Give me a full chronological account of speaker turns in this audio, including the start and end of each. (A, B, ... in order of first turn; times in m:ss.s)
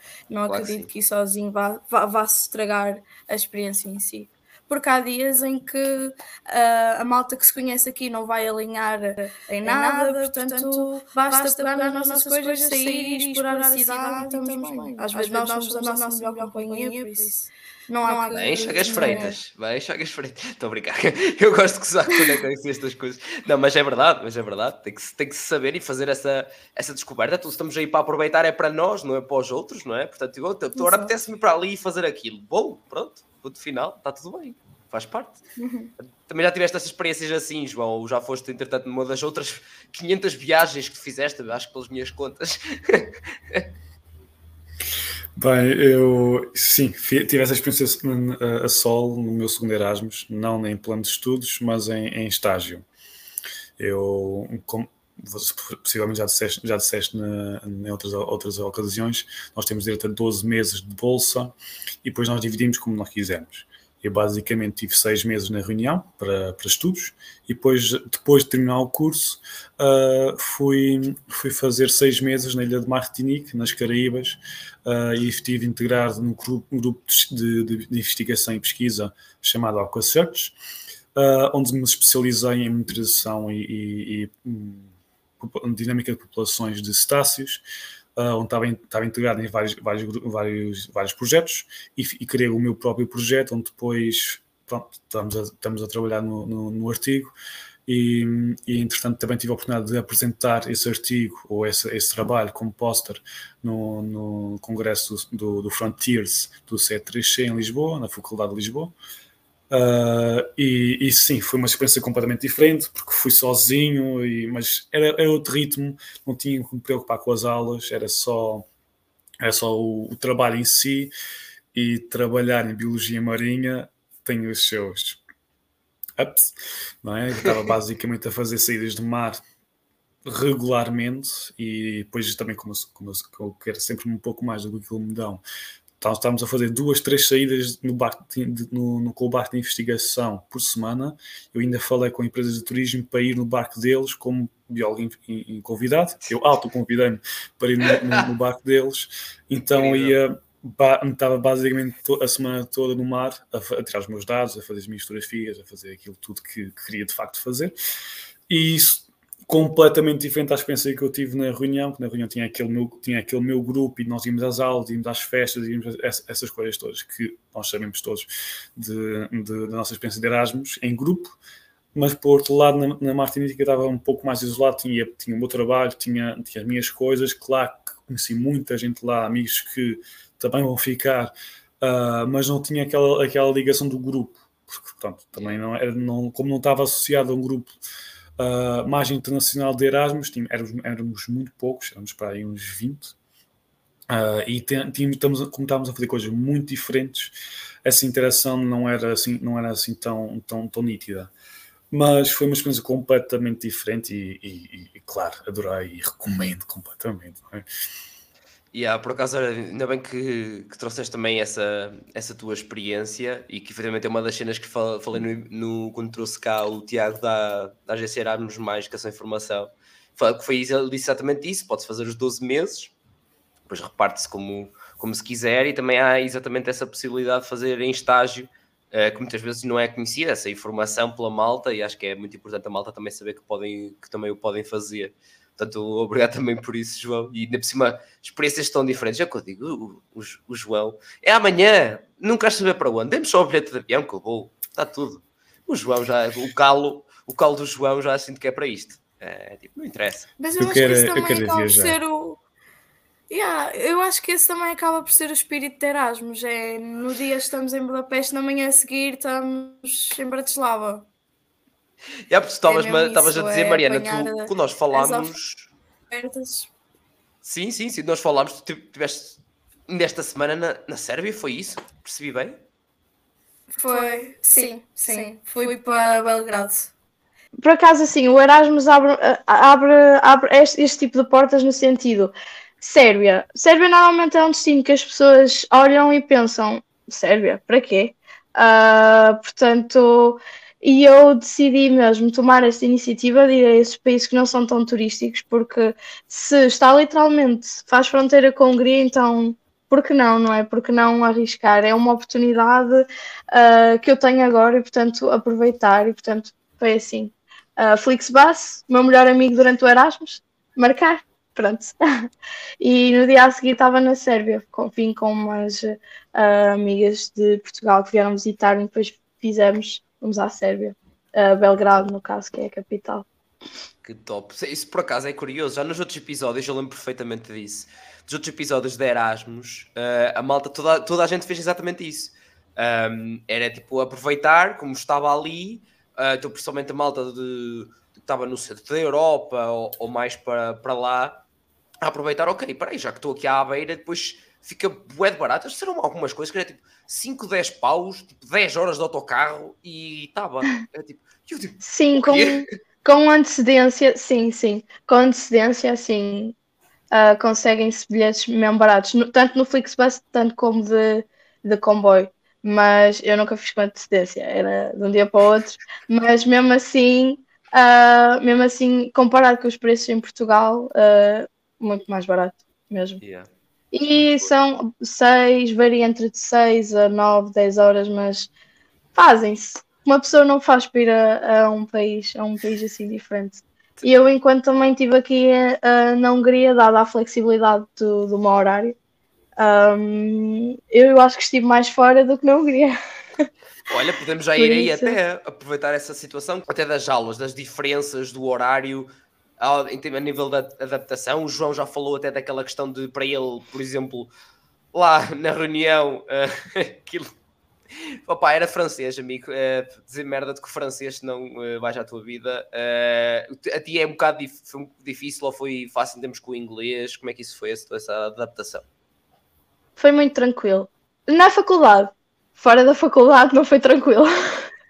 0:00.3-0:19.4 A
0:00.5-0:00.9 B
0:09.6-0:17.4 C
0:18.0-0:19.3 C
0:18.3-0:35.4 B
0:36.0-0:43.7 B
0:45.4-0:52.9 D
0:53.8-1:20.6 D
1:21.2-1:27.6 D
1:28.2-1:37.3 D
1:37.9-1:49.0 D
1:49.7-1:58.7 D
1:59.4-2:01.1 D
2:01.7-2:05.2 D
2:06.2-2:09.4 D
2:10.2-2:15.4 D
2:16.0-2:37.7 D
2:29.7-2:30.2 B
2:38.5-2:51.4 D
2:52.0-3:07.8 D
3:05.4-3:05.6 B
3:08.4-3:13.2 D
3:14.1-3:17.3 D
3:17.8-3:21.3 D
3:21.9-3:27.6 D
3:28.7-3:42.9 B
3:43.7-4:10.3 B
4:10.4-4:12.4 A
4:10.6-4:12.0 D
4:13.3-4:21.0 A
4:22.3-4:25.7 B
4:22.7-4:25.3 A
4:26.1-4:26.7 A
4:27.4-4:32.6 B
4:33.8-4:36.9 A
4:33.9-4:35.3 C
4:37.6-5:12.0 C
5:12.8-5:23.3 C
5:24.0-5:41.4 B
5:42.0-5:52.6 B
5:51.8-5:56.6 C
5:57.1-6:13.2 C
6:13.2-6:13.5 B
6:13.9-6:18.5 C
6:14.1-6:14.5 B
6:19.2-6:29.0 C
6:29.6-6:33.5 C
6:33.9-6:39.1 B
6:34.6-6:35.2 C
6:39.6-6:44.3 B
6:44.9-6:47.3 B
6:48.0-6:58.8 B
7:00.0-7:04.3 C